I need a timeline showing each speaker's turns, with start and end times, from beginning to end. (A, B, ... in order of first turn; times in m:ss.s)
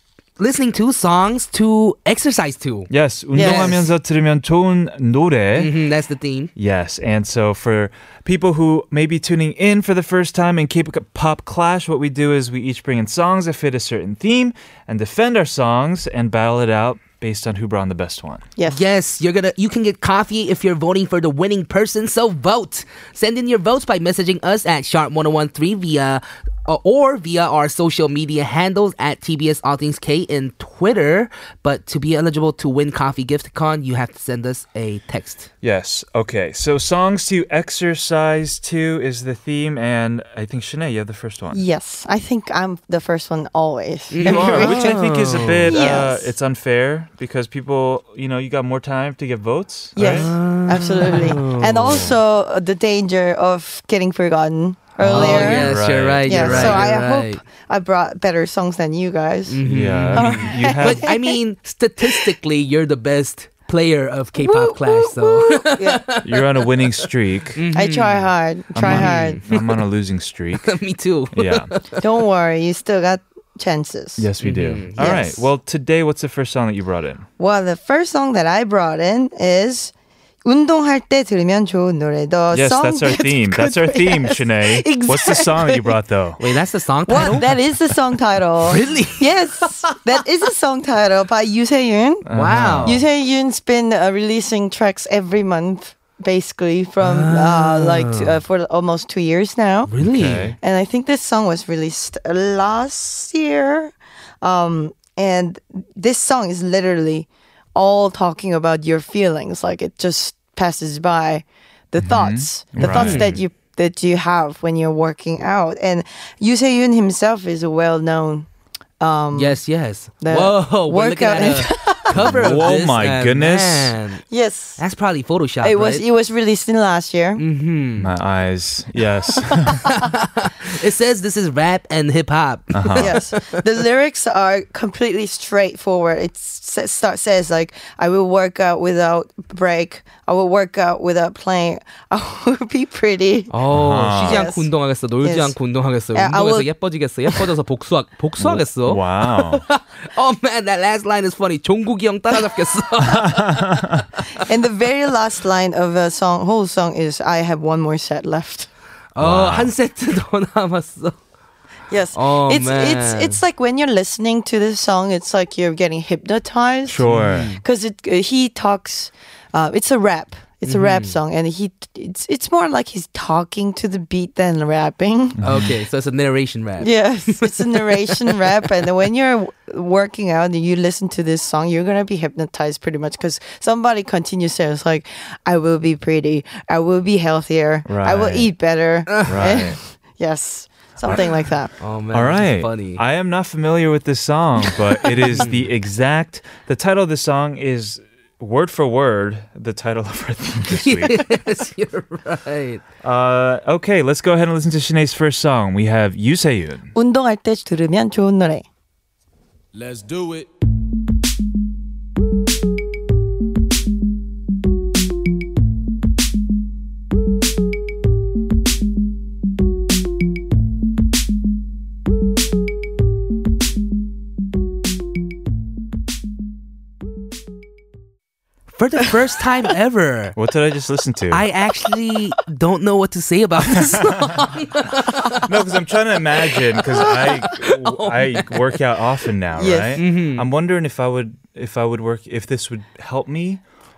0:00.4-0:03.8 A
0:02.9-0:05.7 B
0:03.3-0:03.9 C
0:05.5-0:06.5 A
0:06.6-0:18.4 B
0:18.7-0:35.5 A
0:35.6-0:41.6 B
0:41.5-0:46.3 C
0:44.1-0:45.7 A
0:44.2-0:50.3 B
0:50.0-0:59.6 C
0:50.0-0:52.1 A
0:51.0-0:51.3 B
0:51.8-0:52.1 B
0:55.0-0:56.9 B
0:55.0-0:57.4 A
0:59.5-1:09.8 A
0:59.6-1:01.1 B
1:00.1-1:01.4 C
1:04.4-1:06.0 C
1:06.2-1:07.6 B
1:07.7-1:09.4 C
1:08.7-1:10.8 B
1:10.6-1:12.0 A
1:11.3-1:11.7 B
1:12.0-1:14.3 C
1:14.2-1:17.3 B
1:14.4-1:15.4 A
1:15.0-1:15.4 C
1:17.4-1:19.9 C
1:20.4-1:26.0 C
1:22.5-1:26.4 B
1:26.4-1:27.5 A
1:27.1-1:32.2 C
1:28.6-1:29.3 A
1:32.2-1:33.0 B
1:32.3-1:33.0 A
1:32.8-1:39.9 C
1:37.0-1:38.4 A
1:39.9-1:40.5 A
1:40.0-1:40.6 B
1:40.6-1:58.5 C
1:52.0-1:53.4 B
1:52.8-1:53.4 A
1:59.0-1:59.6 C
1:59.3-2:04.2 A
2:00.2-2:02.6 C
2:02.1-2:03.9 B
2:04.3-2:04.8 C
2:04.8-2:06.0 A
2:05.6-2:07.4 C
2:07.4-2:08.1 A
2:08.0-2:09.9 B
2:09.8-2:13.4 A
2:12.7-2:13.2 B
2:13.0-2:23.6 C
2:23.5-2:34.0 A
2:23.7-2:24.5 B
2:24.2-2:25.6 C
2:26.1-2:26.7 C
2:28.4-2:29.6 B
2:33.1-2:34.0 B
2:34.4-2:38.7 C
2:39.1-2:41.2 A
2:39.2-2:39.7 B
2:41.9-2:55.4 C
2:42.1-2:43.4 A
2:46.8-2:47.5 B
2:47.0-2:47.6 A
2:50.6-2:51.2 A
2:55.4-2:55.7 B
2:55.4-2:58.3 A
2:56.8-3:11.7 C
3:07.8-3:08.5 B
3:09.1-3:09.4 A
3:09.2-3:09.8 B
3:11.8-3:13.0 A
3:12.1-3:21.2 B
3:15.3-3:15.7 A
3:20.7-3:22.8 A
3:23.0-3:26.9 B
3:26.9-3:28.6 C
3:48.7-3:50.4 A
3:50.3-3:51.4 B
3:51.3-3:55.5 A
3:53.7-3:54.5 B
3:55.2-4:03.6 B
3:56.5-3:58.8 A
3:59.6-4:00.0 C
4:00.0-4:00.5 A